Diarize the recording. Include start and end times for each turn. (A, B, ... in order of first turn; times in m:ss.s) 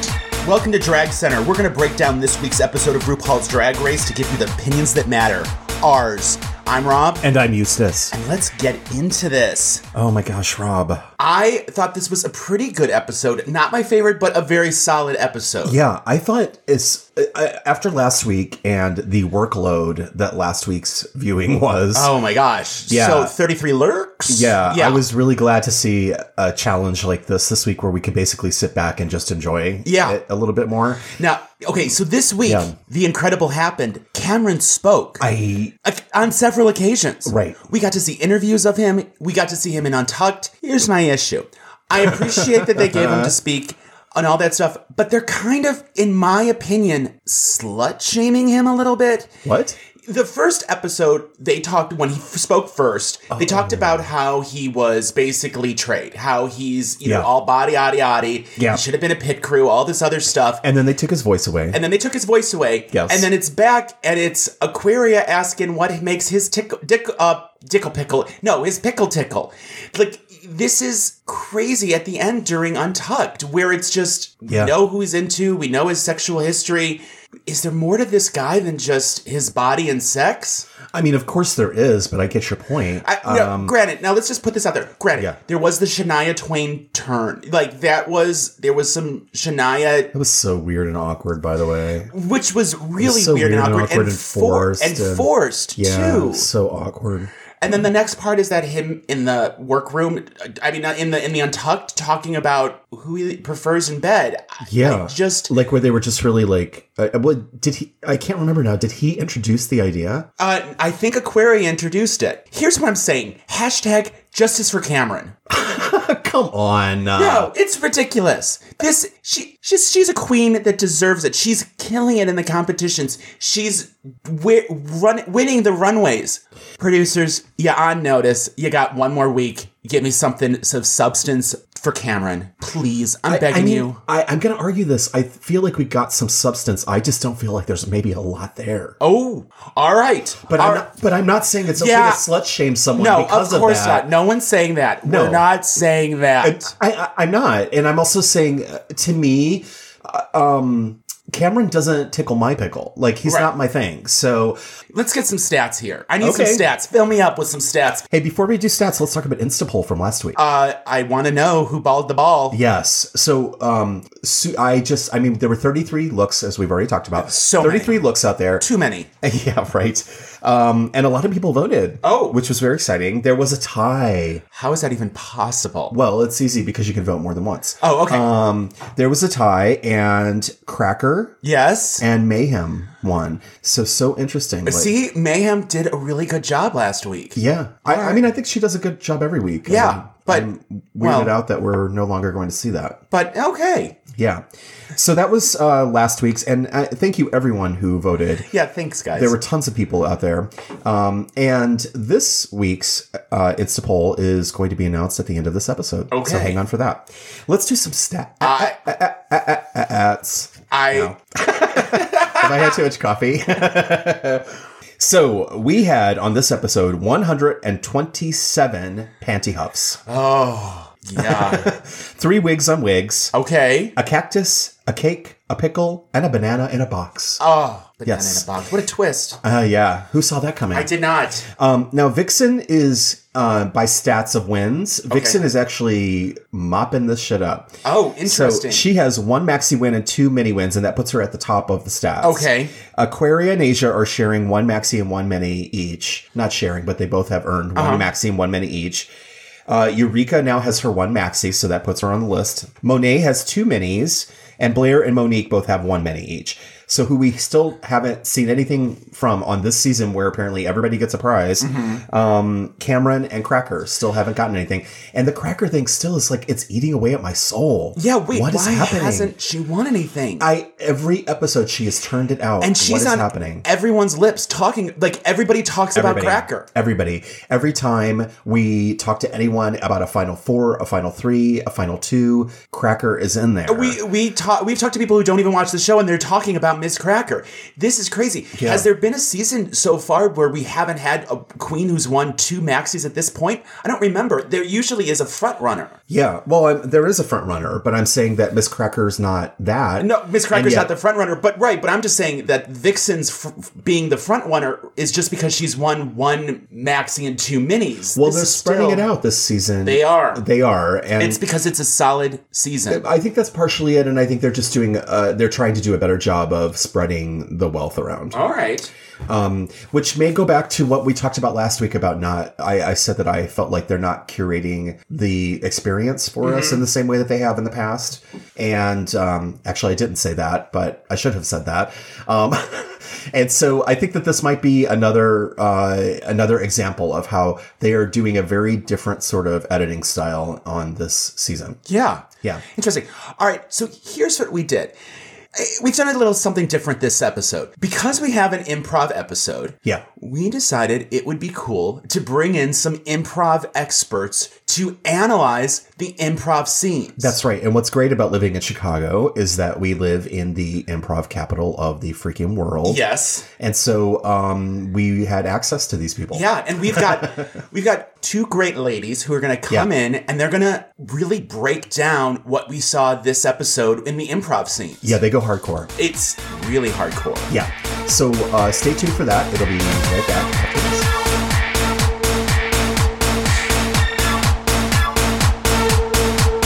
0:00.4-0:07.2 A
0:07.2-0:08.1 B
0:08.1-0:09.8 A
0:09.9-0:11.0 B
0:11.2-0:15.8 A
0:15.6-0:22.1 B
0:21.9-0:25.0 A
0:22.9-0:23.3 B
0:24.3-0:31.1 B
0:29.8-0:30.2 A
0:31.2-0:35.3 A
0:32.4-0:32.7 B
0:35.2-0:35.7 B
0:35.8-0:49.4 A
0:37.2-0:37.6 B
0:42.0-0:43.3 B
0:49.4-0:49.8 B
0:50.0-1:00.6 A
0:53.3-0:54.1 B
0:58.6-0:58.8 B
1:00.6-1:01.8 B
1:01.7-1:20.7 A
1:02.9-1:03.3 B
1:14.5-1:14.7 B
1:20.9-1:23.7 B
1:23.0-1:30.1 A
1:30.1-1:32.1 B
1:32.1-1:36.5 A
1:33.0-1:37.9 B
1:37.6-1:45.5 A
1:44.6-1:50.3 B
1:50.4-1:55.4 A
1:55.5-1:57.5 B
1:57.2-2:14.0 A
2:13.3-2:19.0 B
2:19.0-2:20.9 A
2:20.4-2:24.1 B
2:21.8-2:22.2 A
2:23.0-2:26.7 A
2:25.0-2:25.4 B
2:26.4-2:34.6 B
2:33.2-2:33.5 A
2:34.9-2:38.0 A
2:36.2-2:36.6 B
2:38.1-2:40.4 B
2:40.3-2:42.6 A
2:42.5-2:48.6 B
2:47.2-2:48.1 A
2:48.6-2:49.1 A
2:49.2-2:54.4 B
2:52.0-2:52.4 A
2:54.5-2:55.9 A
2:55.9-3:01.4 B
2:57.8-2:58.3 A
3:01.4-3:02.0 A
3:02.0-3:04.9 B
3:04.6-3:08.2 A
3:07.3-3:13.0 B
3:09.6-3:11.3 A
3:13.1-3:14.0 A
3:14.1-3:14.4 B
3:14.9-3:18.5 B
3:18.4-3:19.4 A
3:19.1-3:40.0 B
3:26.1-3:26.6 A
3:28.4-3:28.8 A
3:30.7-3:31.1 A
3:31.8-3:32.7 A
3:40.0-3:41.7 A
3:41.2-3:43.3 B
3:43.3-3:43.9 A
3:44.0-3:47.4 B
3:47.4-3:49.4 A
3:48.0-3:48.5 B
3:49.4-3:50.9 B
3:50.7-3:51.4 A
3:51.5-4:09.1 B
3:55.1-3:55.4 A
3:57.8-3:58.8 A
4:02.2-4:02.7 A
4:07.7-4:08.1 A
4:09.7-4:29.3 B
4:21.6-4:22.0 A
4:28.0-4:30.5 A
4:30.4-4:33.6 B
4:32.6-4:36.7 A
4:35.9-4:44.0 B
4:43.6-4:56.0 A
4:48.6-4:48.9 B
4:56.1-5:00.9 B
5:00.0-5:09.1 A
5:08.1-5:11.4 B
5:09.8-5:10.4 A
5:11.2-5:13.0 A
5:12.9-5:18.4 B
5:18.3-5:18.9 A
5:19.2-5:41.8 B
5:26.4-5:26.8 A
5:41.8-5:45.0 A
5:45.5-5:57.4 A
5:57.2-6:07.4 B
6:02.8-6:03.4 A
6:06.3-6:15.2 A
6:15.0-6:15.9 B
6:16.0-6:17.5 A
6:17.5-6:21.1 B